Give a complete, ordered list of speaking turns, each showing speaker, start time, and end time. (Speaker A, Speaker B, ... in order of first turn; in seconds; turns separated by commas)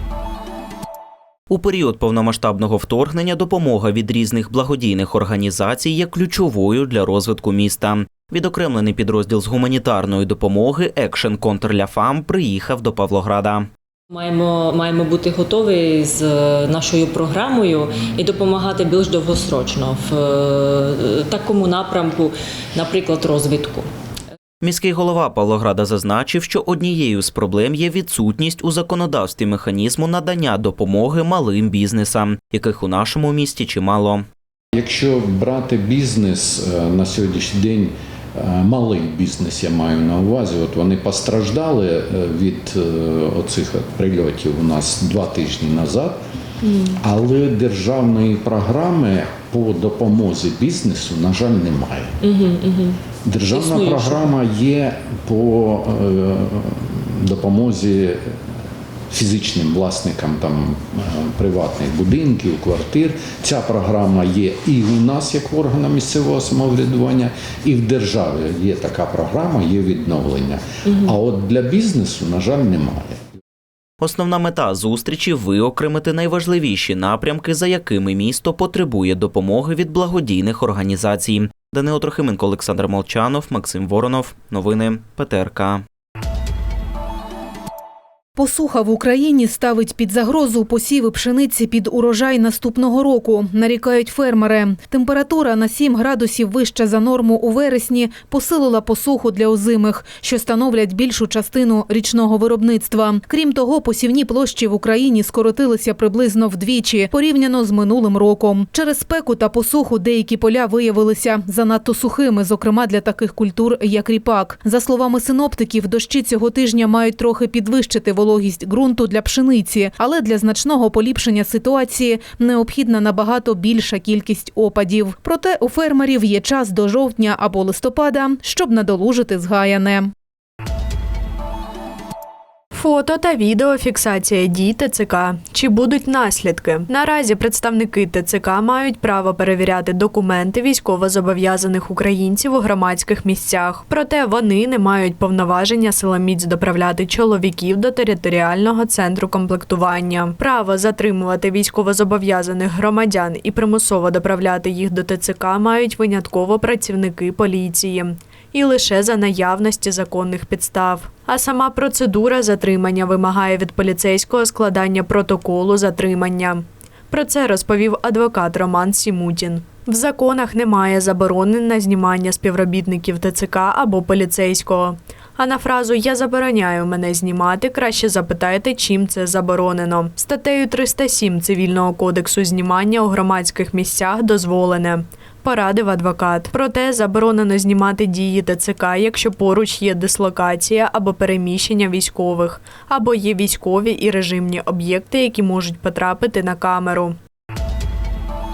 Speaker A: 1.5-13.7, Speaker B: 14.1-23.9, Speaker A: 24.6-34.2, Speaker C: 34.7-46.2, Speaker B: 46.6-47.0, Speaker C: 47.0-52.1, Speaker B: 52.2-54.3, Speaker C: 53.2-58.2, Speaker C: 59.1-73.2, Speaker A: 74.0-85.8, Speaker D: 88.4-130.1, Speaker E: 132.7-197.2